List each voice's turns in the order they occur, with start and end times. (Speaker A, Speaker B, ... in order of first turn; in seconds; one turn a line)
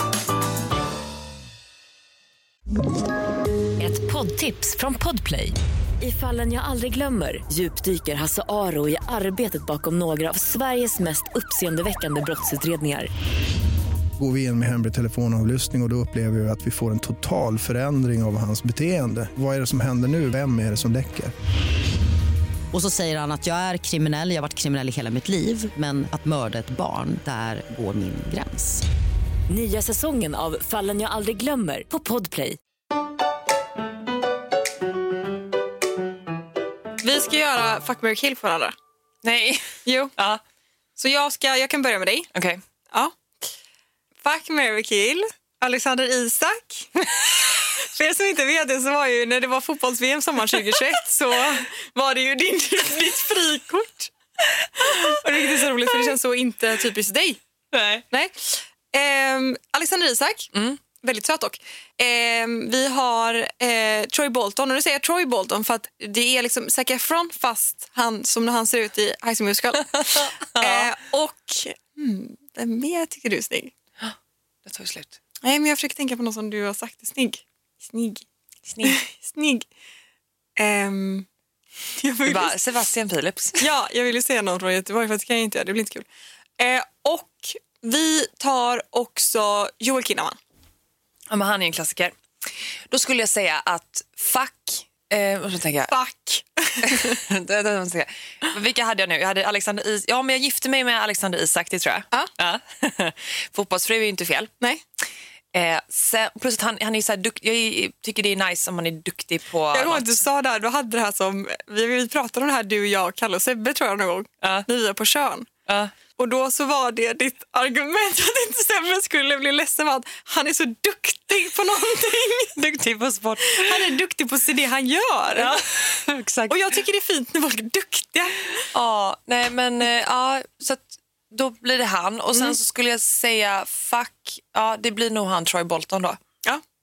Speaker A: 3.8-13.1
Speaker B: 14.2-21.3
Speaker C: 22.7-28.8
Speaker A: 29.5-32.6
Speaker D: 37.0-38.7
Speaker E: 39.2-40.4
Speaker D: 39.8-40.1
Speaker D: 41.0-42.3
Speaker E: 42.3-42.6
Speaker D: 44.2-47.0
Speaker D: 47.6-54.1
Speaker E: 50.5-50.9
Speaker D: 54.8-57.4
Speaker E: 55.0-56.1
Speaker E: 57.7-58.0
Speaker D: 58.1-60.5
Speaker E: 60.5-60.8
Speaker D: 61.0-73.7
Speaker E: 69.9-70.9
Speaker E: 74.0-75.2
Speaker D: 75.4-78.2
Speaker E: 78.7-79.0
Speaker D: 78.8-79.7
Speaker D: 80.6-81.2
Speaker D: 82.0-82.6
Speaker E: 82.2-83.7
Speaker D: 83.6-86.1
Speaker D: 86.6-90.4
Speaker E: 91.3-92.1
Speaker E: 92.9-95.9
Speaker D: 95.9-97.2
Speaker E: 96.8-104.5
Speaker E: 105.5-110.1
Speaker D: 109.7-115.5
Speaker E: 114.4-114.7
Speaker E: 115.7-115.9
Speaker D: 116.2-122.5
Speaker E: 122.5-123.9
Speaker D: 123.4-125.6
Speaker E: 125.3-126.6
Speaker D: 126.5-128.7
Speaker E: 128.7-136.2